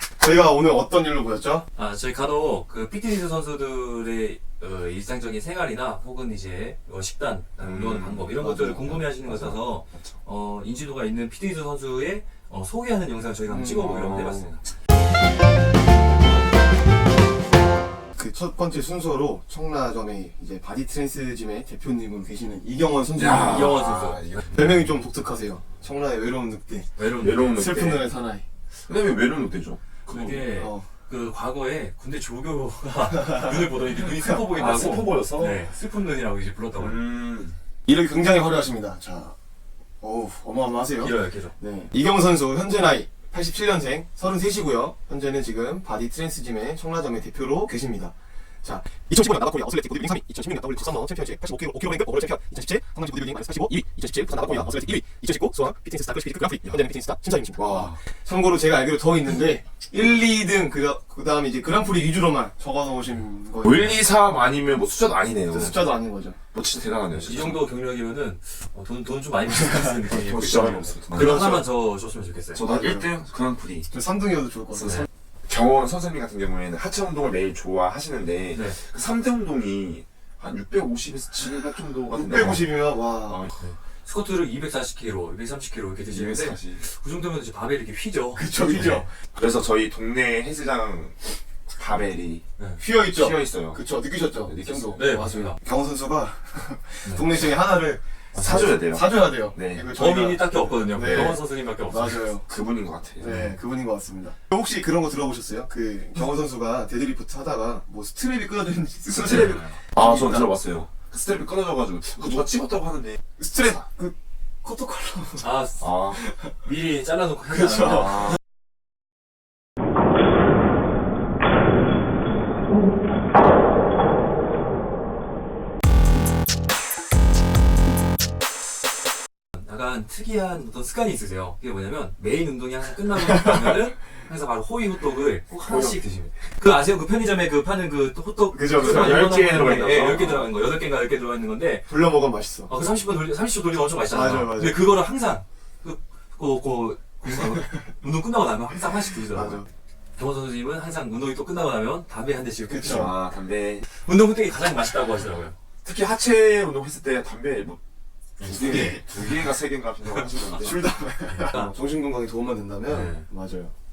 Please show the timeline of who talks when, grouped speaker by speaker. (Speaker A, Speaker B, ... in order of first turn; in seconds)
Speaker A: 0.2-1.6, 8.4-9.0, 13.4-13.9, 18.2-23.8, 24.5-26.9, 27.5-28.4, 30.6-30.9, 37.9-39.3, 40.0-64.0, 65.5-66.4, 72.7-73.1, 73.9-75.1, 82.1-83.4, 88.4-89.1, 92.8-102.5, 103.2-110.6, 113.4-115.5, 117.5-118.2, 138.5-139.3, 141.9-142.7, 144.1-144.8, 149.3-149.7, 152.7-153.1, 158.5-159.1, 160.5-163.7
Speaker B: 1.8-14.7, 23.3-24.2, 26.9-27.6, 30.1-37.0, 41.0-41.5, 67.2-72.6, 83.6-89.0, 94.9-95.6, 99.9-102.2, 115.4-115.9, 116.6-118.3, 129.6-141.9, 142.7-149.6, 150.2-153.1, 153.9-155.6, 158.4-159.0, 161.3-161.7, 162.9-163.2
Speaker C: 7.6-8.3, 9.2-10.2, 13.8-14.5, 23.2-24.7, 27.2-28.1, 28.8-30.4, 34.5-35.5, 36.8-37.6, 57.6-58.0, 63.6-66.0, 66.5-67.6, 70.1-71.6, 72.5-73.9, 74.8-83.5, 86.0-86.8, 89.3-93.8, 94.4-95.3, 98.4-99.9, 101.0-101.4, 102.4-103.4, 109.2-113.2, 115.8-116.2, 117.9-118.4, 135.6-136.0, 138.7-140.5, 152.8-153.8, 155.8-157.8, 158.4-160.8